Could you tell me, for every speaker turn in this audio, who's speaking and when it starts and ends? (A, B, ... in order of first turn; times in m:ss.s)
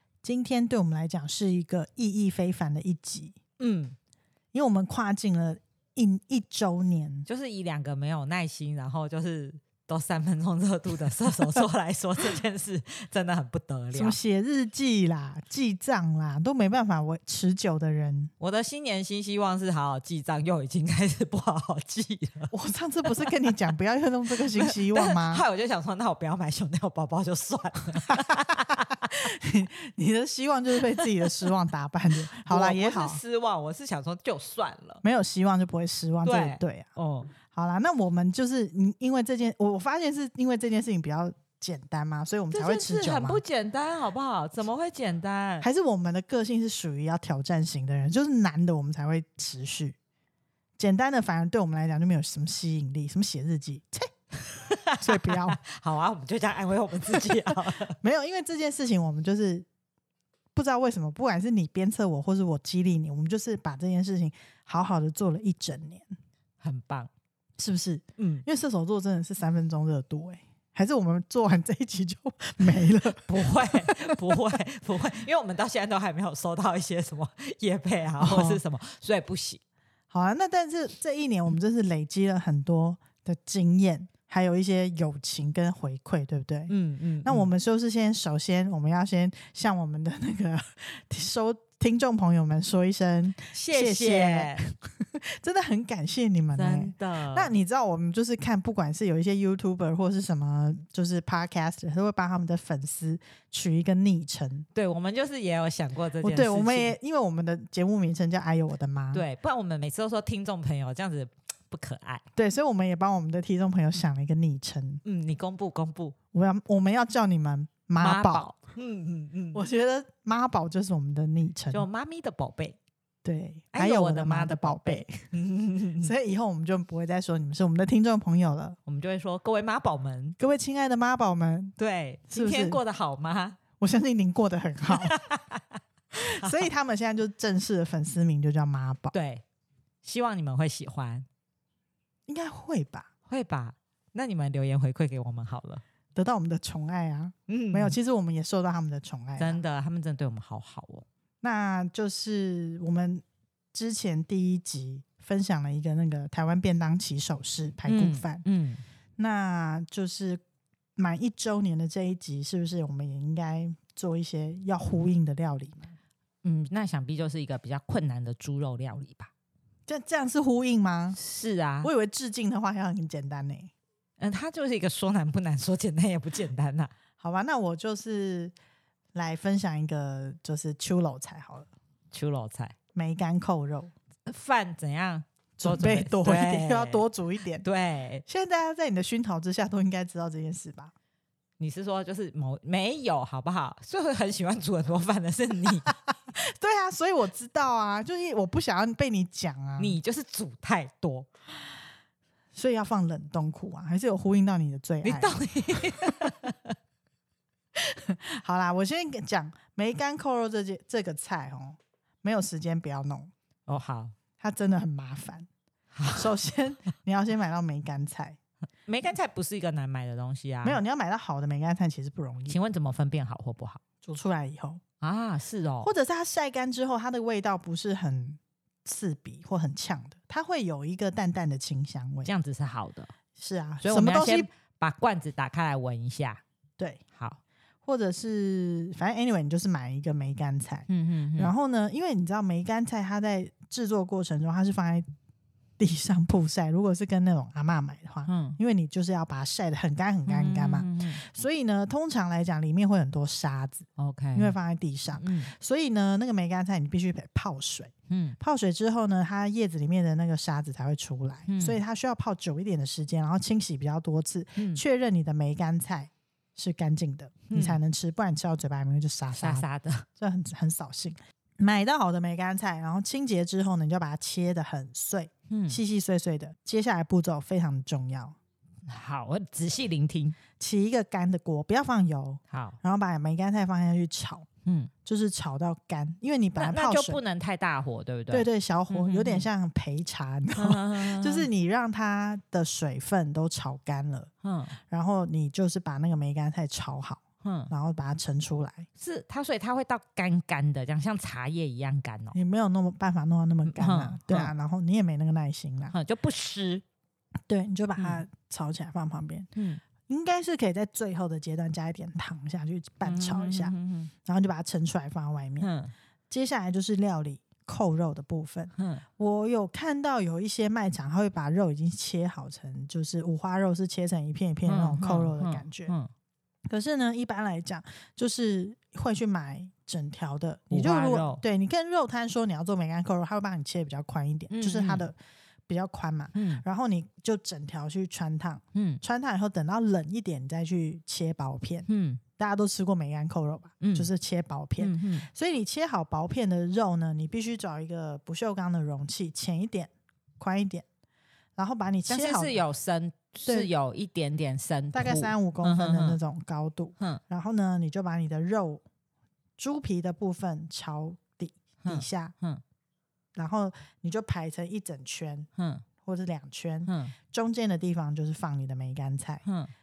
0:00.2-0:03.4 A
0:03.6-0:03.9 B
0:04.5-0:07.3 A
0:07.2-0:14.2 B
0:13.9-0:18.3 A
0:18.4-0:22.5 B
0:22.5-0:25.4 A
0:24.6-0:28.9 B
0:29.2-0:33.2 A
0:32.5-0:35.0 B
0:35.0-0:36.9 A
0:36.2-0:37.3 B
0:37.5-0:43.4 A
0:42.5-0:45.6 B
0:45.6-0:50.0 A
0:50.8-0:54.1 A
0:54.5-0:58.0 B
0:55.0-0:55.6 A
0:58.0-0:59.7 A
1:00.5-1:06.1 A
1:06.6-1:07.1 B
1:07.6-1:14.1 A
1:08.2-1:08.4 B
1:13.1-1:19.6 B
1:18.2-1:18.6 A
1:20.1-1:44.7 A
1:26.7-1:27.5 B
1:33.5-1:34.6 B
1:36.5-1:37.5 B
1:44.7-1:46.9 B
1:46.2-1:49.2 A
1:49.1-1:52.2 B
1:52.4-1:55.0 A
1:55.0-1:56.1 B
1:56.3-1:58.5 A
1:58.0-1:59.6 B
1:59.5-2:01.8 A
2:01.7-2:02.8 B
2:03.2-2:05.3 A
2:03.7-2:06.1 B
2:06.0-2:08.8 A
2:08.8-2:10.4 B
2:10.4-2:11.7 A
2:11.8-2:13.6 B
2:12.3-2:12.8 A
2:13.8-2:15.2 A
2:15.0-2:15.6 B
2:16.1-2:19.1 A
2:19.1-2:19.4 B
2:20.0-2:21.2 B
2:22.3-2:23.1 A
2:23.3-2:25.8 B
2:26.1-2:29.6 A
2:27.5-2:28.0 B
2:29.4-2:31.0 B
2:31.4-2:33.2 A
2:33.7-2:38.4 A
2:37.8-2:38.8 B
2:39.2-2:40.4 A
2:41.0-2:45.9 A
2:46.4-2:49.3 B
2:49.9-2:51.2 A
2:51.2-2:51.9 B
2:51.8-2:53.7 A
2:54.2-2:56.9 B
2:57.2-2:58.5 A
2:59.1-3:01.7 A
3:02.1-3:02.7 B
3:02.9-3:03.9 A
3:04.3-3:07.0 B
3:05.6-3:07.6 A
3:07.6-3:08.2 B
3:08.2-3:10.9 A
3:11.6-3:15.9 B
3:16.4-3:20.0 A
3:19.8-3:21.3 B
3:22.5-3:25.4 A
3:25.0-3:26.7 B
3:27.8-3:33.3 A
3:33.7-3:34.1 B
3:34.4-3:35.5 A
3:35.9-3:36.3 B
3:36.1-3:38.4 A
3:38.9-3:40.8 B
3:40.6-3:42.6 A
3:42.5-3:43.8 B
3:44.0-3:44.8 A
3:45.0-3:45.9 B
3:45.8-3:52.3 A
3:52.2-3:53.1 B
3:53.4-3:54.5 A
3:53.8-3:56.4 B
3:57.1-3:57.4 B
3:57.8-4:05.0 A
4:00.9-4:01.5 B
4:05.8-4:29.6 A
4:08.2-4:08.6 B
4:10.3-4:11.2 B
4:14.0-4:14.6 B
4:15.2-4:15.5 B
4:18.1-4:18.4 B
4:21.5-4:21.8 B
4:24.6-4:24.8 B
4:27.5-4:27.8 B
4:29.3-4:30.0 B
4:30.2-4:38.4 A
4:35.5-4:35.8 B
4:38.8-4:40.4 B
4:40.6-4:44.4 A
4:42.5-4:42.8 B
4:44.6-4:44.9 B
4:45.0-4:47.2 A
4:46.6-4:49.5 B
4:48.3-4:54.3 A
4:50.6-4:51.5 B
4:54.4-4:54.8 B
4:54.9-4:58.9 A
4:57.4-4:57.7 B
4:59.0-5:02.4 B
5:02.3-5:05.9 A
5:03.6-5:04.5 B
5:05.9-5:06.8 B
5:07.5-5:09.5 A
5:08.0-5:08.2 B
5:09.5-5:09.8 B
5:10.0-5:13.7 A
5:13.0-5:14.1 B
5:14.2-5:15.7 A
5:15.6-5:15.9 B
5:16.3-5:25.9 A
5:18.8-5:19.0 B
5:24.7-5:26.1 B
5:26.7-5:35.2 A
5:30.7-5:31.4 B
5:34.5-5:35.1 B
5:35.7-5:41.9 A
5:36.3-5:36.6 B
5:38.7-5:39.0 B
5:41.9-5:42.2 B
5:42.4-5:50.8 A
5:43.8-5:44.1 B
5:44.8-5:45.3 B
5:51.6-5:52.6 A
5:52.1-5:56.2 B
5:54.9-5:58.8 A
5:59.6-6:02.3 A
6:01.8-6:02.6 B
6:03.3-6:05.5 A
6:05.6-6:05.8 B
6:06.0-6:09.4 A
6:06.8-6:07.1 B
6:09.4-6:09.7 B